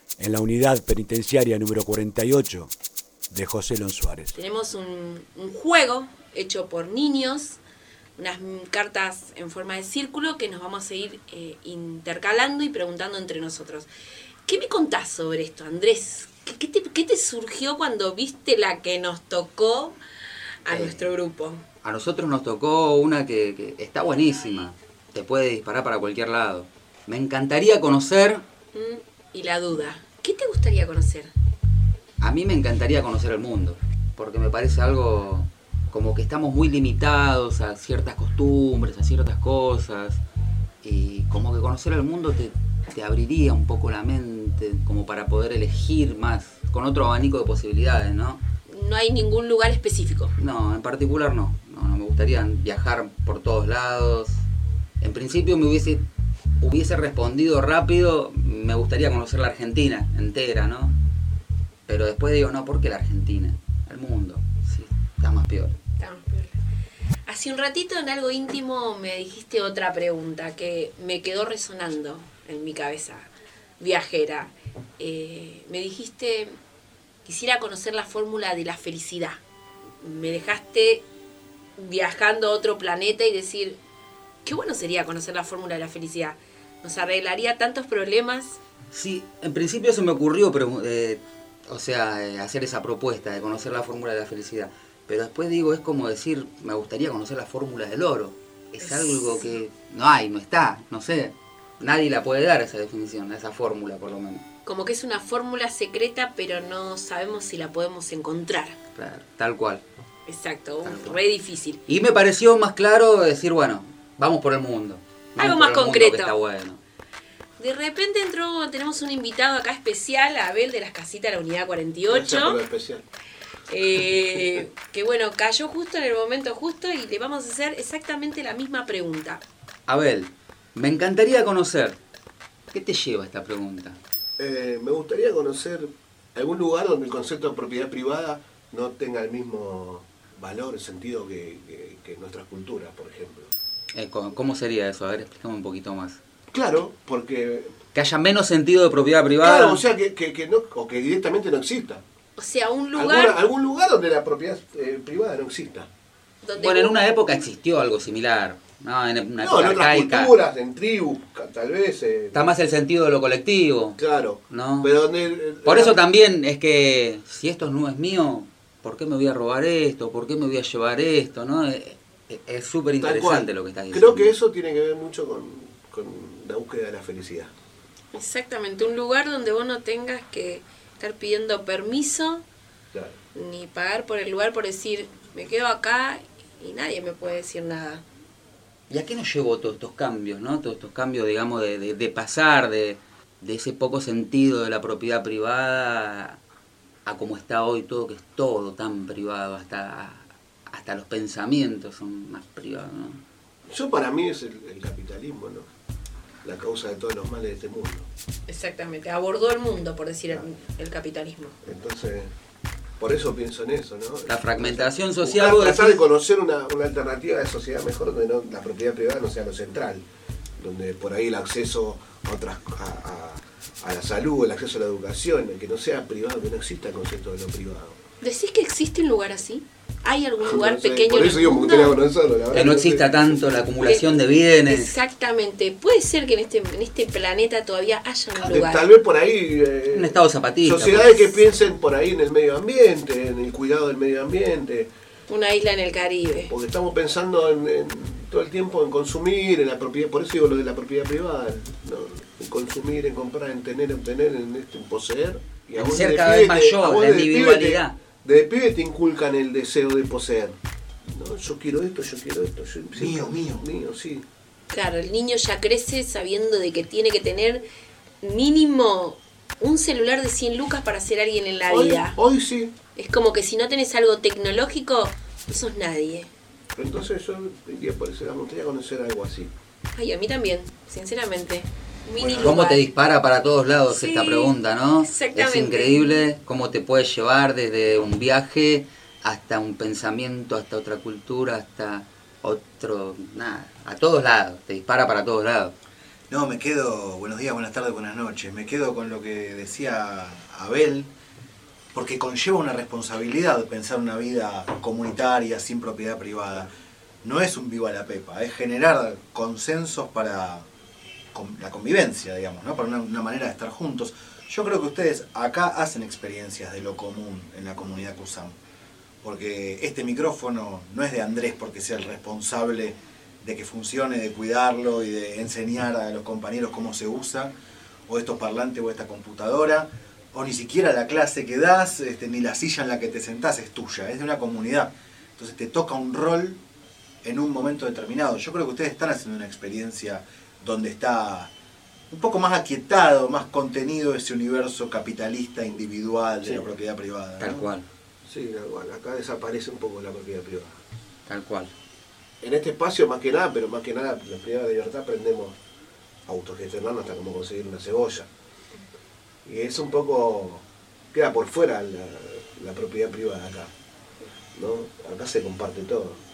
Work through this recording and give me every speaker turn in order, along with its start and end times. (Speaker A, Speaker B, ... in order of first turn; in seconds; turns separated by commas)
Speaker A: 0.2-2.7, Speaker A: 3.3-4.3, Speaker B: 4.3-7.6, Speaker B: 8.2-13.9, Speaker B: 14.5-20.0, Speaker B: 20.6-21.6, Speaker C: 20.7-21.1, Speaker C: 21.8-28.4, Speaker B: 28.7-31.3, Speaker C: 32.2-40.2, Speaker C: 40.8-48.4, Speaker B: 48.7-50.3, Speaker C: 50.4-54.4, Speaker C: 55.0-56.0, Speaker C: 56.6-60.9, Speaker C: 61.9-65.8, Speaker B: 66.0-66.6, Speaker B: 67.3-76.5, Speaker B: 77.2-79.4, Speaker B: 80.0-81.0, Speaker B: 81.8-83.8, Speaker B: 84.4-88.6, Speaker C: 88.9-104.4, Speaker B: 98.8-99.5, Speaker B: 104.6-108.8, Speaker C: 108.9-109.8, Speaker B: 110.3-111.8, Speaker C: 110.8-111.2, Speaker C: 111.9-116.8, Speaker B: 115.4-116.4, Speaker B: 117.6-122.6, Speaker D: 122.1-123.0, Speaker B: 123.7-129.4, Speaker C: 129.9-132.0, Speaker C: 132.7-134.0, Speaker D: 134.4-143.5, Speaker C: 143.9-146.2, Speaker D: 146.5-147.7, Speaker C: 147.9-149.8, Speaker D: 149.4-152.0, Speaker B: 152.3-153.4, Speaker D: 152.9-155.9, Speaker B: 156.4-157.4, Speaker C: 156.6-160.3, Speaker D: 159.4-162.5, Speaker C: 162.3-165.0, Speaker D: 164.0-166.0, Speaker C: 165.6-174.3, Speaker D: 173.0-177.5, Speaker B: 178.1-182.4, Speaker B: 183.3-188.0, Speaker C: 188.9-196.4, Speaker C: 197.1-203.2, Speaker D: 203.7-205.7, Speaker D: 206.4-208.1, Speaker B: 208.5-211.6, Speaker D: 211.6-212.3, Speaker D: 213.0-220.0, Speaker C: 214.3-216.0, Speaker D: 220.6-228.0, Speaker B: 228.2-232.0, Speaker D: 230.4-233.7, Speaker C: 232.5-235.0, Speaker B: 234.7-238.9, Speaker D: 238.4-244.9, Speaker C: 239.9-241.3, Speaker B: 245.3-246.5, Speaker D: 246.5-264.2, Speaker C: 255.8-257.9, Speaker E: 262.9-263.6, Speaker B: 264.7-267.6, Speaker B: 268.2-272.2, Speaker D: 271.7-272.7, Speaker B: 272.9-276.3, Speaker D: 276.8-279.5, Speaker B: 279.9-282.9, Speaker D: 282.2-282.5, Speaker C: 282.3-295.7, Speaker B: 283.9-286.3, Speaker E: 296.3-301.1, Speaker E: 301.9-306.7, Speaker E: 307.2-310.6, Speaker E: 311.3-318.5, Speaker E: 319.2-327.5, Speaker E: 328.1-336.6, Speaker E: 337.2-341.5, Speaker E: 342.1-347.7, Speaker D: 346.4-346.7, Speaker C: 347.4-347.9, Speaker D: 348.2-350.8, Speaker C: 351.3-351.7, Speaker D: 352.4-355.5, Speaker D: 356.2-358.3, Speaker D: 359.4-363.7, Speaker D: 364.5-366.2